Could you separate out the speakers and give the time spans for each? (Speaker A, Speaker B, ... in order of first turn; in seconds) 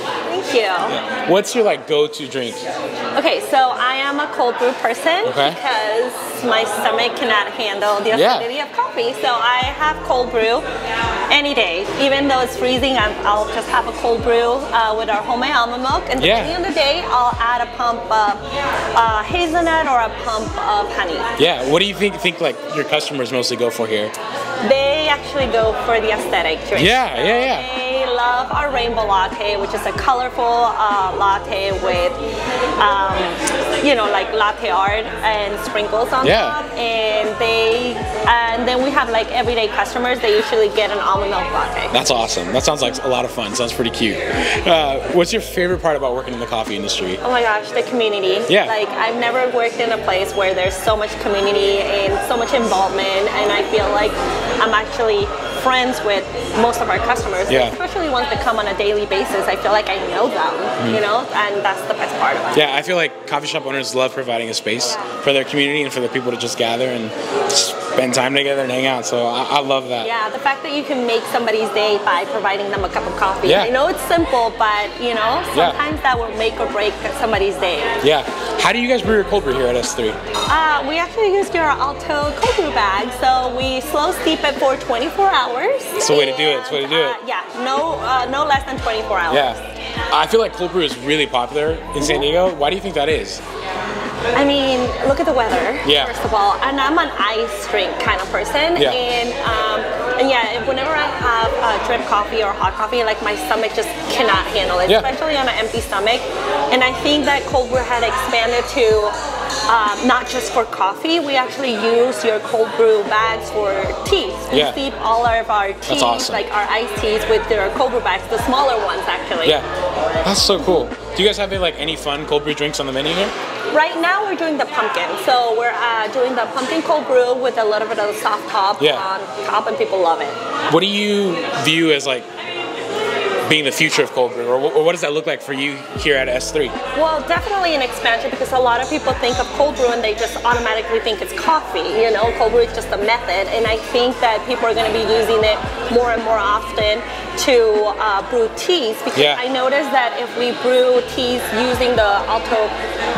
Speaker A: 0.3-1.0, 3.1-10.6, 11.3-18.4, 18.9-21.3, 24.6-32.2, 32.8-42.0, 47.2-62.7, 70.0-78.0, 80.5-89.6, 92.0-92.2, 94.3-109.2, 109.7-119.6, 123.7-130.4, 136.9-152.7
Speaker B: 0.9-2.6, 5.2-5.6, 8.1-8.5, 16.2-16.6, 21.4-24.1, 26.8-27.7, 36.2-36.6, 41.9-47.2, 48.5-48.7, 57.5-57.8, 62.5-70.1, 73.4-73.7, 75.5-75.8, 78.0-80.2, 86.0-87.2, 89.3-89.6, 90.1-93.4, 95.8-96.1, 98.8-99.0, 114.5-114.8, 115.9-116.4, 120.2-123.3, 128.8-129.1, 130.7-132.3, 133.5-136.8, 149.1-149.4